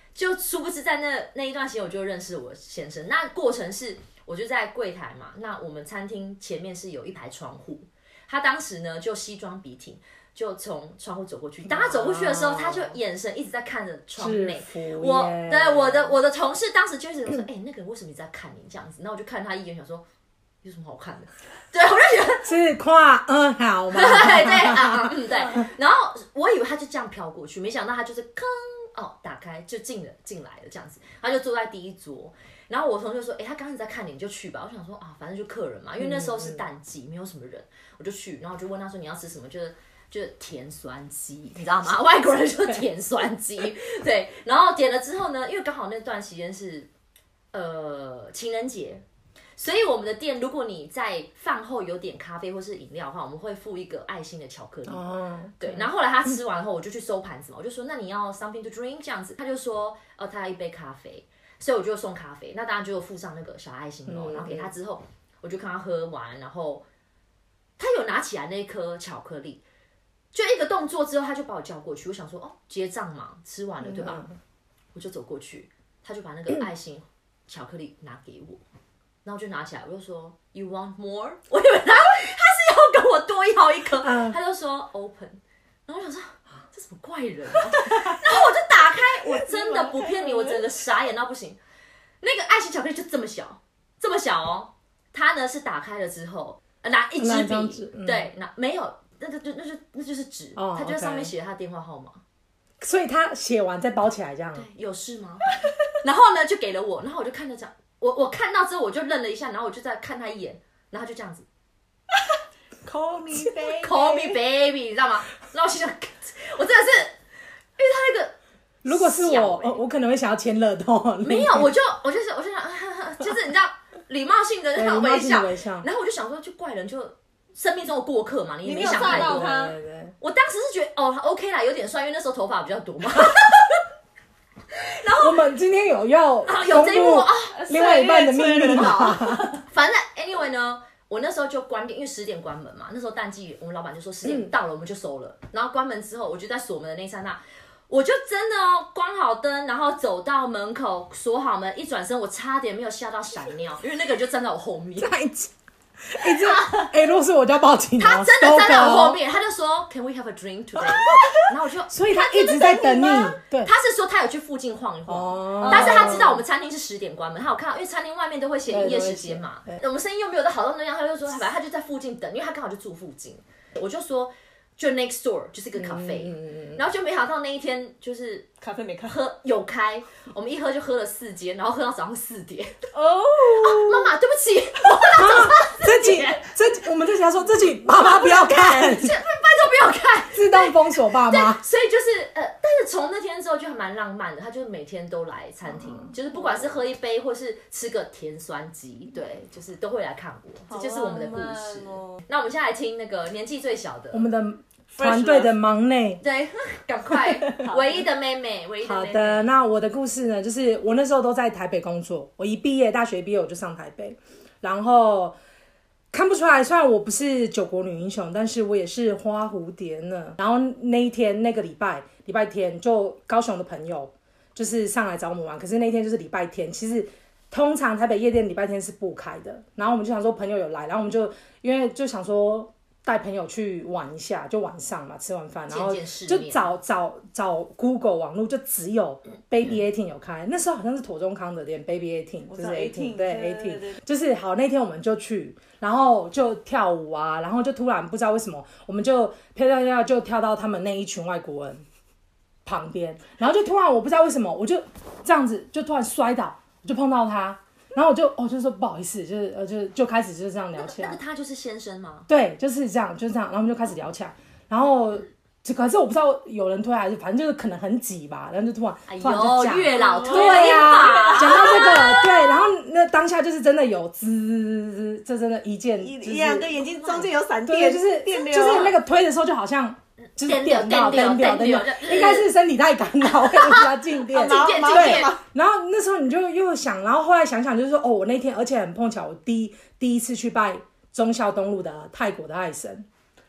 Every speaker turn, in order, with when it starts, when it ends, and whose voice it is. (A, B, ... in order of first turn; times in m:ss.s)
0:00.1-0:20.0 A
0:11.6-0:12.9 B
0:14.2-0:16.2 B
0:20.6-0:22.5 A
0:22.4-0:25.2 B
0:23.9-0:46.9 A
0:25.3-0:25.6 C
0:36.0-0:36.6 B
0:47.5-0:49.0 A
0:49.6-1:06.8 A
0:54.9-0:55.9 B
1:04.1-1:04.7 B
1:07.8-1:09.6 A
1:10.3-1:14.3 A
1:13.8-1:14.4 B
1:14.9-1:18.6 A
1:19.2-1:31.6 A
1:24.0-1:24.4 B
1:29.1-1:30.6 C
1:32.2-1:42.2 A
1:37.2-1:38.3 B
1:40.6-1:41.3 B
1:42.8-1:44.7 B
1:44.5-1:51.4 A
1:52.8-1:54.4 C
1:53.7-1:57.2 A
1:57.8-1:58.3 A
1:58.8-2:01.7 B
1:58.8-1:59.8 A
2:01.2-2:09.6 A
2:04.7-2:05.9 B
2:08.6-2:09.7 C
2:08.8-2:10.1 B
2:10.2-2:13.8 A
2:14.7-2:15.5 A
2:15.2-2:19.5 B
2:16.4-2:17.6 A
2:17.5-2:19.6 C
2:18.7-2:35.1 A
2:24.2-2:24.5 B
2:35.0-2:35.5 B
2:36.1-2:39.2 B
2:36.2-2:36.9 A
2:38.0-2:58.5 A
2:41.9-2:43.7 B
2:45.1-2:46.4 B
2:45.6-2:46.4 C
2:48.7-2:49.8 B
2:55.7-2:56.8 B
2:58.6-2:59.3 C
2:59.0-3:02.8 A
3:02.9-3:04.1 C
3:03.5-3:06.4 A
3:05.1-3:09.2 B
3:07.9-3:24.3 A
3:10.3-3:11.6 B
3:16.3-3:16.8 C
3:20.7-3:22.2 C
3:24.1-3:26.2 B
3:25.0-3:25.5 C
3:26.2-3:29.5 A
3:27.2-3:28.1 C
3:28.8-3:35.4 B
3:36.1-4:11.8 B
3:55.7-3:56.6 A
4:02.5-4:04.0 C
4:12.6-4:21.2 B
4:20.7-4:22.3 A
4:22.3-4:36.7 B
4:29.1-4:32.3 A
4:29.9-4:32.0 C
4:36.0-4:39.0 C
4:37.0-4:37.3 A
4:37.6-4:53.1 B
4:40.4-4:42.5 A
4:43.2-4:45.4 A
4:44.3-4:45.4 C